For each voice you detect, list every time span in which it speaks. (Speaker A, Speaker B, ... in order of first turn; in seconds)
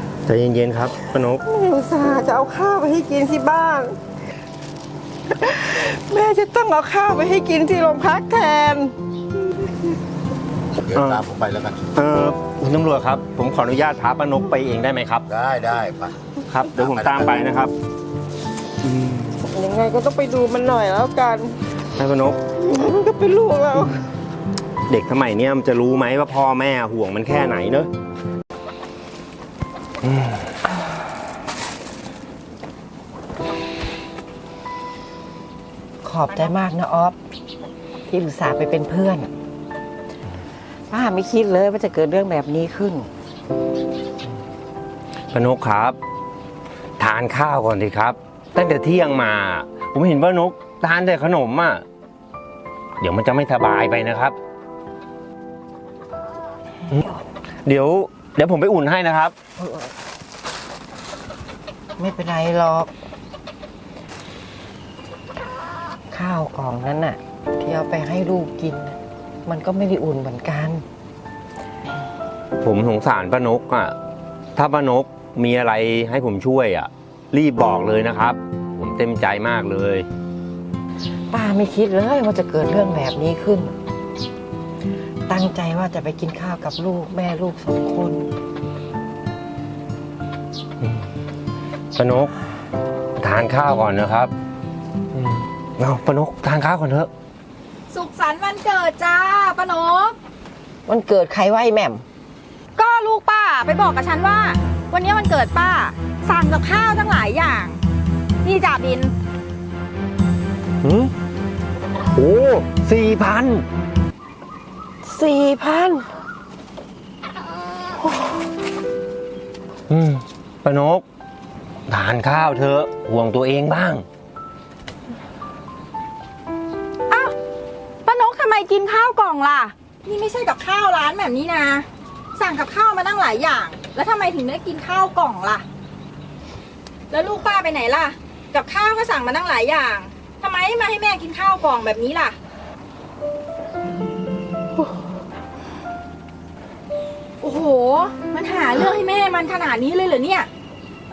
Speaker A: 0.2-1.4, 10.9-11.2, 11.9-15.2, 16.5-17.7, 21.9-22.4, 24.9-27.9, 30.1-30.3, 45.3-46.0, 47.0-51.8, 53.0-54.4, 56.9-59.3, 72.6-73.9, 74.5-80.1, 91.9-92.3, 93.2-94.3, 95.1-97.1, 110.8-111.1, 112.1-113.6, 119.9-121.0, 121.9-124.0
Speaker B: 1.4-3.9, 5.4-8.9, 19.4-21.5, 22.6-24.0, 36.0-37.2, 38.1-39.3, 40.9-43.1, 59.6-59.9, 62.0-62.9, 66.1-70.8, 81.3-83.7, 85.3-88.3, 100.9-102.0, 115.0-116.0
Speaker C: 10.8-11.8, 15.3-16.1, 16.8-17.4
Speaker D: 97.9-100.1, 102.8-107.8, 108.4-109.1, 128.0-135.6, 137.1-142.3, 147.4-150.5